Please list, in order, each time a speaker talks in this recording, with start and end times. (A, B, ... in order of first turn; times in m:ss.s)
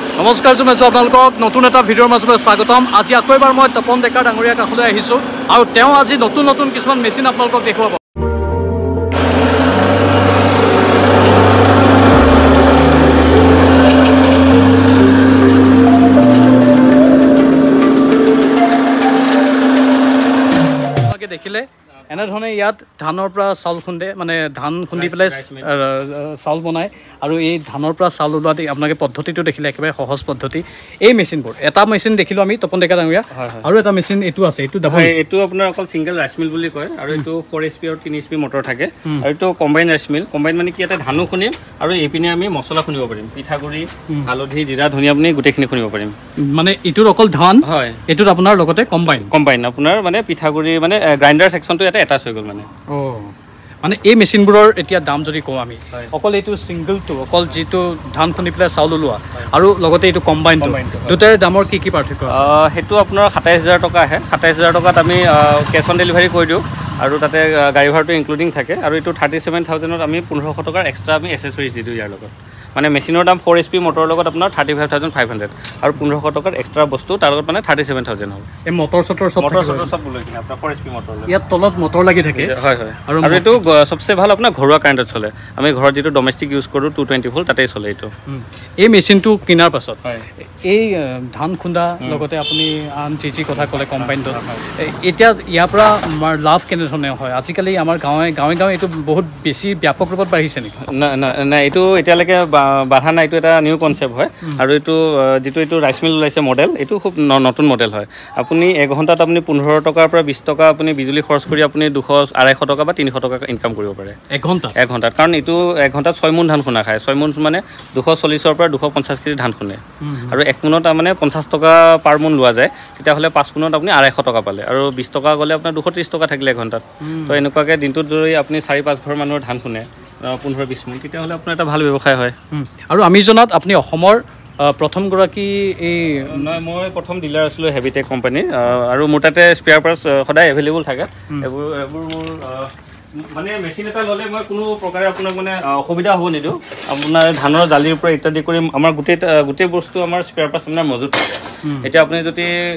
0:00.2-0:08.0 A
0:21.0-0:35.1 A
0:24.9-0:25.7 B
0:33.3-0:33.7 B
0:34.8-0:46.1 B
0:46.5-0:49.3 A
0:47.6-0:48.0 B
0:49.1-0:52.7 B
0:52.9-1:02.4 A
1:00.6-1:01.2 B
1:02.3-1:18.5 B
1:18.7-1:19.9 A
1:19.4-1:21.3 B
1:21.3-1:22.5 A
1:22.4-1:28.1 B
1:23.1-1:23.6 A
1:28.3-1:40.8 A
1:33.6-1:34.7 B
1:40.8-1:54.2 B
1:54.3-1:54.8 A
1:54.8-2:12.4 B
2:00.0-2:00.4 A
2:07.0-2:07.4 A
2:12.5-2:16.6 A
2:16.3-2:32.5 B
2:31.6-2:31.9 A